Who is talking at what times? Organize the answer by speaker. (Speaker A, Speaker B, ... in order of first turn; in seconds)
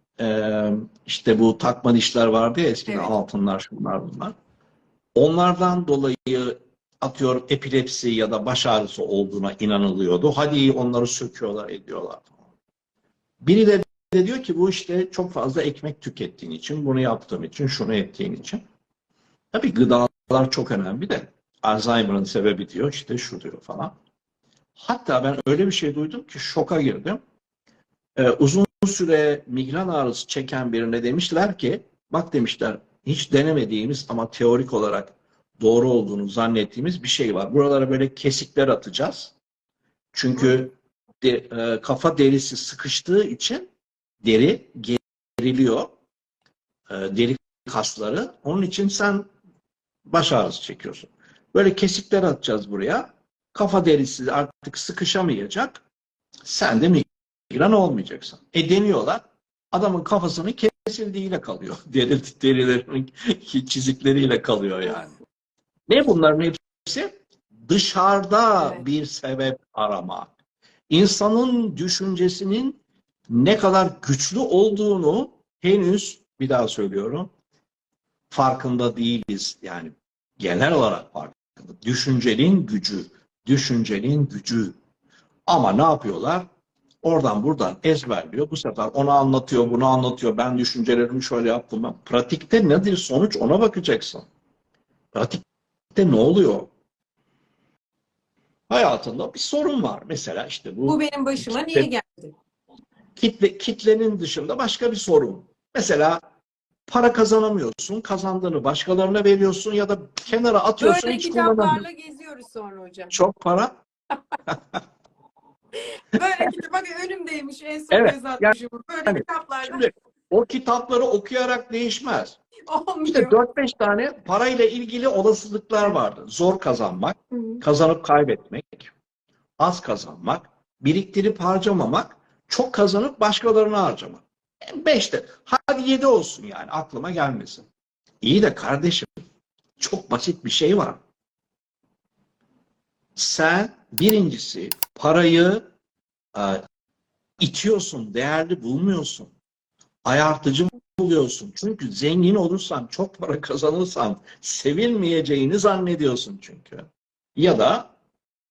Speaker A: 0.2-4.3, 5.2-12.4, 13.4-18.6, 19.5-23.9, 24.8-27.2, 28.2-39.4, 40.1-43.7, 44.2-45.9, 46.9-49.3, 50.1-55.8, 56.5-65.2, 65.9-70.3, 70.9-77.3, 78.3-84.8, 85.5-86.5, 87.0-94.3, 95.1-95.4, 96.0-96.7, 98.7-101.9, 103.2-106.2, 106.9-111.8, 113.1-113.7, 117.9-122.4, 123.1-128.9, 129.6-137.7, 138.2-139.2, 139.8-141.0, 143.2-145.7, 146.3-146.7, 147.4-149.3, 150.1-157.9
Speaker B: 2.9-3.1, 100.9-102.3, 110.8-113.1, 115.8-119.8, 122.7-123.4, 127.3-127.6